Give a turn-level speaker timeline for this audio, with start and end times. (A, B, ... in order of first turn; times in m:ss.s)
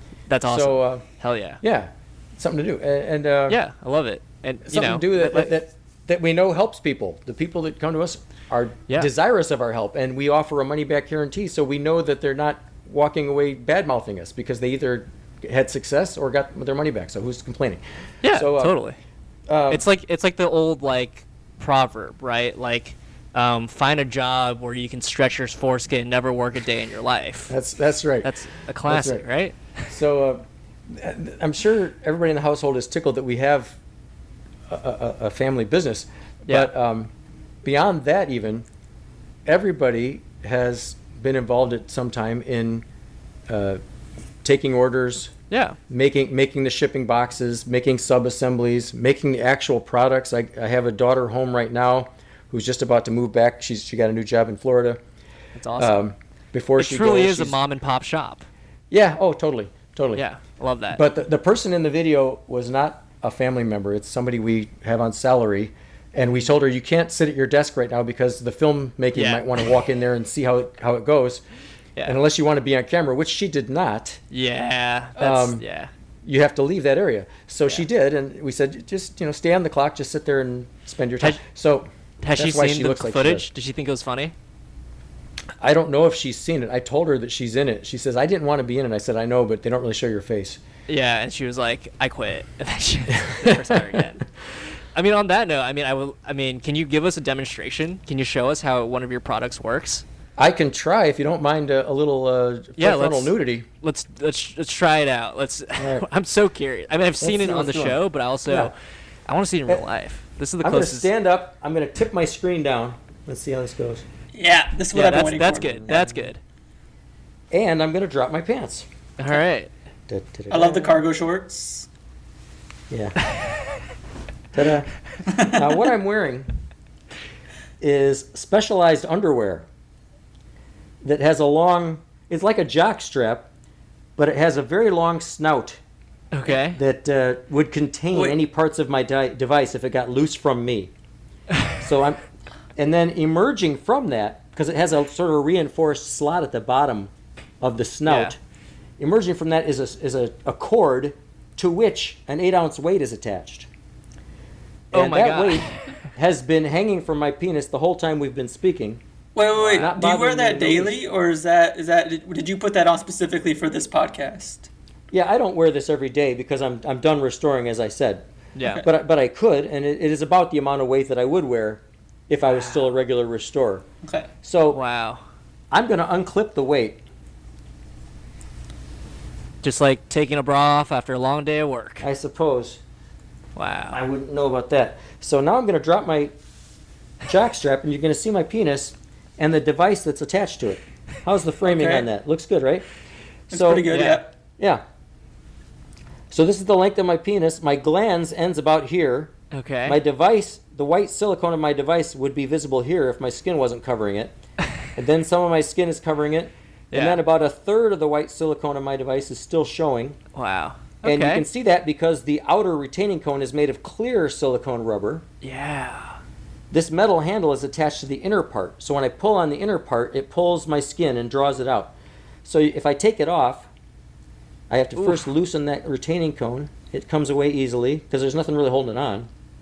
0:00.3-0:01.6 A
0:00.4-0:01.0 B
0:01.6-0:03.6 B
0:03.5-0:05.5 A
0:04.7-0:18.8 B
0:18.2-0:19.0 A
0:19.5-0:19.8 B
0:19.7-0:27.6 A
0:27.5-0:28.3 B
0:28.2-0:29.6 A
0:28.9-0:29.3 B
0:29.9-0:33.8 B
0:34.7-0:37.1 B
0:37.6-0:38.7 B
0:39.5-0:42.8 B
0:43.5-0:43.8 B
0:44.4-0:45.3 B
0:45.5-0:45.8 A
0:45.9-0:55.0 B
0:55.6-0:56.0 A
0:55.8-0:57.6 B
0:56.8-0:58.5 A
0:58.9-1:00.2 B
1:00.2-1:01.0 A
1:00.9-1:11.4 B
1:09.1-1:09.5 A
1:12.0-1:14.2 B
1:14.3-1:15.9 A
1:15.2-1:15.6 B
1:16.2-1:23.5 B
1:22.2-1:24.3 A
1:25.6-1:30.6 B
1:30.9-1:34.3 A
1:33.2-1:34.0 B
1:35.0-1:40.0 A
1:40.4-1:43.7 B
1:42.8-1:48.7 A
1:45.8-1:46.1 B
1:47.2-1:48.7 B
1:49.3-1:51.1 A
1:50.6-1:54.0 B
1:54.3-1:56.0 C
1:54.9-1:56.4 A
1:55.9-1:56.2 B
1:57.5-1:58.9 B
1:59.2-1:59.7 A
2:00.1-2:01.0 B
2:00.5-2:01.9 C
2:02.9-2:03.2 B
2:04.5-2:06.5 B
2:05.3-2:05.6 C
2:07.8-2:09.7 B
2:11.0-2:13.5 B
2:14.2-2:15.8 B
2:16.3-2:16.8 A
2:16.5-2:20.9 B
2:21.8-2:22.2 B
2:22.8-2:28.4 B
2:28.1-2:28.3 A
2:29.0-2:33.7 B
2:34.9-2:39.0 B
2:34.9-2:35.8 A
2:39.4-2:44.7 C
2:39.6-2:39.9 A
2:39.7-2:41.0 B
2:45.1-2:48.3 B
2:48.6-2:48.9 A
2:48.8-2:53.8 B
2:54.4-2:54.8 B
2:54.7-2:55.2 A
2:55.7-2:57.0 B
2:59.6-3:02.1 A
3:02.0-3:02.8 B
3:03.6-3:04.0 A
3:03.9-3:06.4 B
3:07.2-3:12.9 B
3:11.6-3:12.1 C
3:13.5-3:13.9 B
3:13.5-3:14.3 C
3:13.9-3:14.2 A
3:14.6-3:14.8 B
3:16.3-3:19.3 B
3:19.5-3:20.0 A
3:19.9-3:24.3 B
3:25.0-3:30.2 B
3:26.9-3:27.2 A
3:30.4-3:31.5 A
3:31.0-3:35.2 B
3:35.4-3:36.2 A
3:36.7-3:41.9 B
3:42.4-3:43.7 B
3:44.7-3:49.3 B
3:45.0-3:45.3 A